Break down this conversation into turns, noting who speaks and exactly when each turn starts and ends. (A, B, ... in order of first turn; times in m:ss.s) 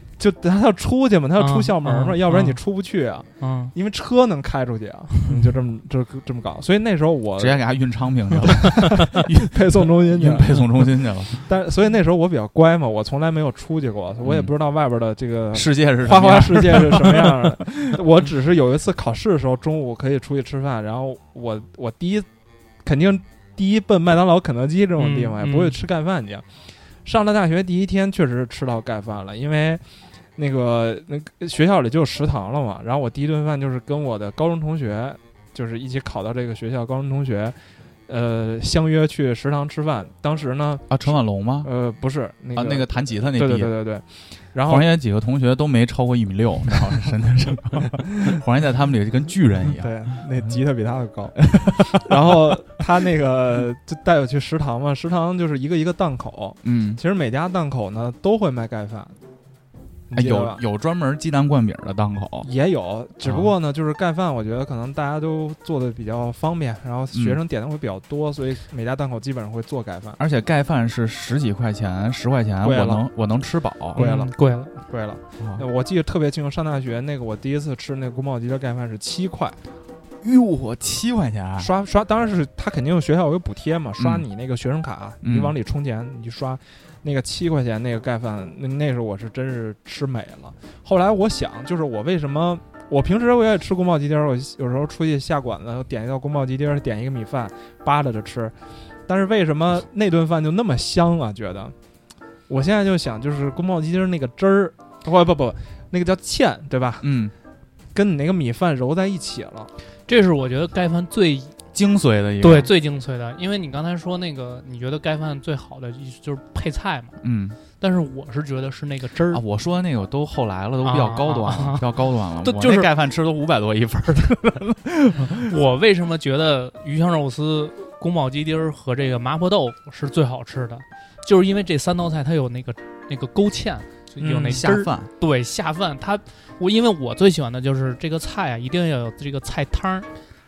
0:00.2-0:07.6 A
0:01.4-0:02.6 B
0:03.4-0:03.7 B
0:07.4-0:11.4 C
0:08.4-0:10.9 A
0:11.4-0:22.2 A
0:14.2-0:14.5 C
0:15.5-0:17.6 C
0:22.8-0:26.4 A
0:25.0-0:25.8 B
0:27.0-0:29.8 A
0:30.4-0:37.6 A
0:38.1-0:44.9 A
0:40.9-0:41.7 C
0:42.5-0:43.7 C
0:44.6-0:49.9 C
0:49.6-0:59.1 A
0:51.6-0:52.1 C
0:56.6-0:57.0 C
1:00.1-1:00.6 A
1:00.1-1:02.5 C
1:02.4-1:10.2 A
1:03.2-1:03.5 C
1:07.1-1:07.4 C
1:10.2-1:14.0 C
1:12.6-1:13.0 A
1:13.9-1:19.6 A
1:14.0-1:14.7 B
1:20.2-1:21.7 C
1:21.6-1:38.5 A
1:24.0-1:24.2 C
1:25.2-1:25.5 C
1:39.1-1:41.7 A
1:42.5-1:47.0 A
1:47.0-1:47.3 C
1:47.9-1:49.7 A
1:50.1-1:51.5 B
1:51.7-1:52.7 C
1:52.4-1:57.1 B
1:57.2-1:57.6 C
1:57.8-1:59.4 B
1:59.3-2:05.5 C
2:00.8-2:01.8 B
2:02.4-2:02.9 B
2:05.4-2:20.1 B
2:14.2-2:14.7 A
2:14.4-2:15.1 C